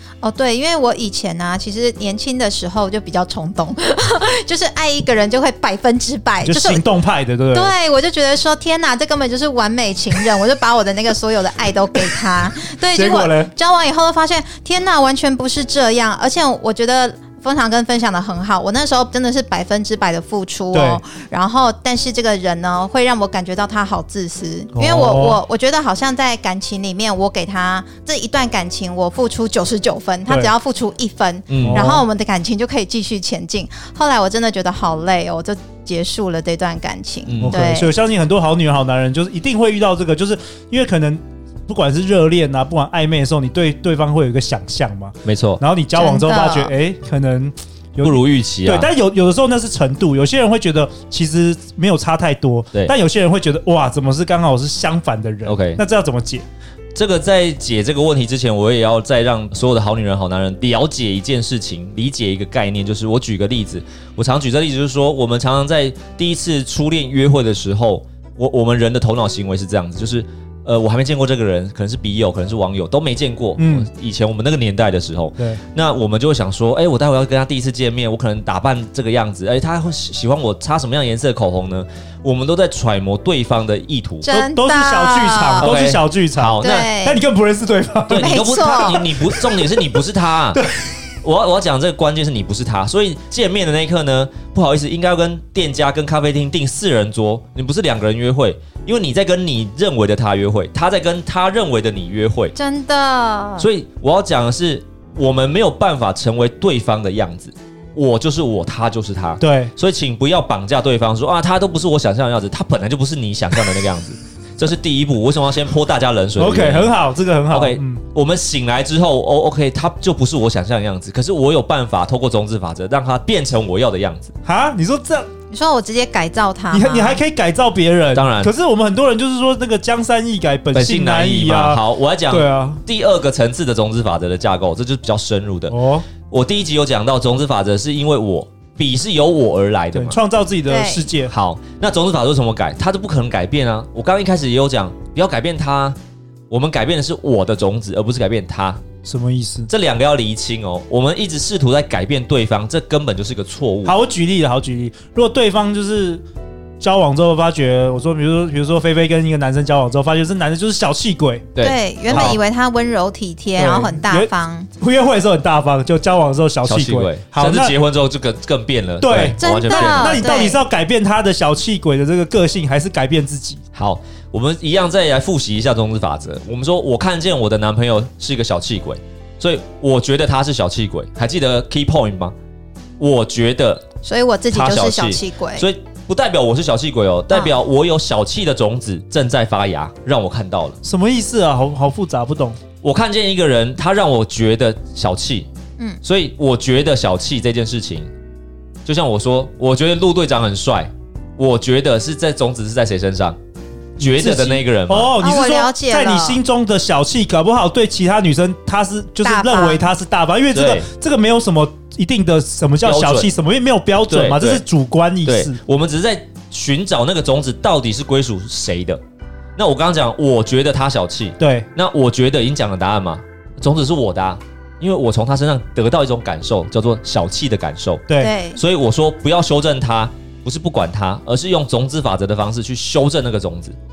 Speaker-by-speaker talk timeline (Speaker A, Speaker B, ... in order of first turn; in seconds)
Speaker A: 0.2-6.8, 7.5-37.9, 46.0-46.7, 84.2-85.7, 86.6-87.2, 88.1-89.1, 102.5-103.7, 125.5-127.2, 140.7-141.1, 161.6-164.7, 169.4-170.6, 184.0-185.7, 205.2-206.4, 209.2-209.8, 228.2-228.6
Speaker B: 6.5-7.7, 12.9-13.5, 20.7-21.0, 24.7-25.4, 30.3-30.5, 31.6-32.0, 37.4-56.5, 73.6-73.9, 84.3-88.3, 109.4-109.7, 116.4-118.0, 124.5-125.3, 126.7-132.8, 135.7-136.1, 139.9-141.3, 149.0-149.7, 153.8-156.2, 156.8-161.5, 162.1-162.4, 163.6-167.7, 169.0-173.6, 190.8-192.6, 204.0-215.6, 221.4-221.7, 228.1-228.3
Speaker C: 31.5-31.9, 37.3-37.6, 45.2-45.6, 48.0-48.9, 55.5-55.8, 57.0-84.3, 85.6-87.0, 88.1-90.6, 91.2-102.5, 103.6-117.0, 117.5-124.3, 128.1-128.5, 130.7-140.2, 141.3-146.0, 146.5-148.8, 149.7-153.9, 161.6-162.4, 166.7-170.2, 173.7-182.3, 183.0-183.9, 184.5-190.8, 192.8-195.5, 196.0-198.1, 198.8-203.4, 204.0-205.2, 210.5-210.9, 212.8-213.3, 214.1-214.7, 215.2-219.0, 219.6-233.8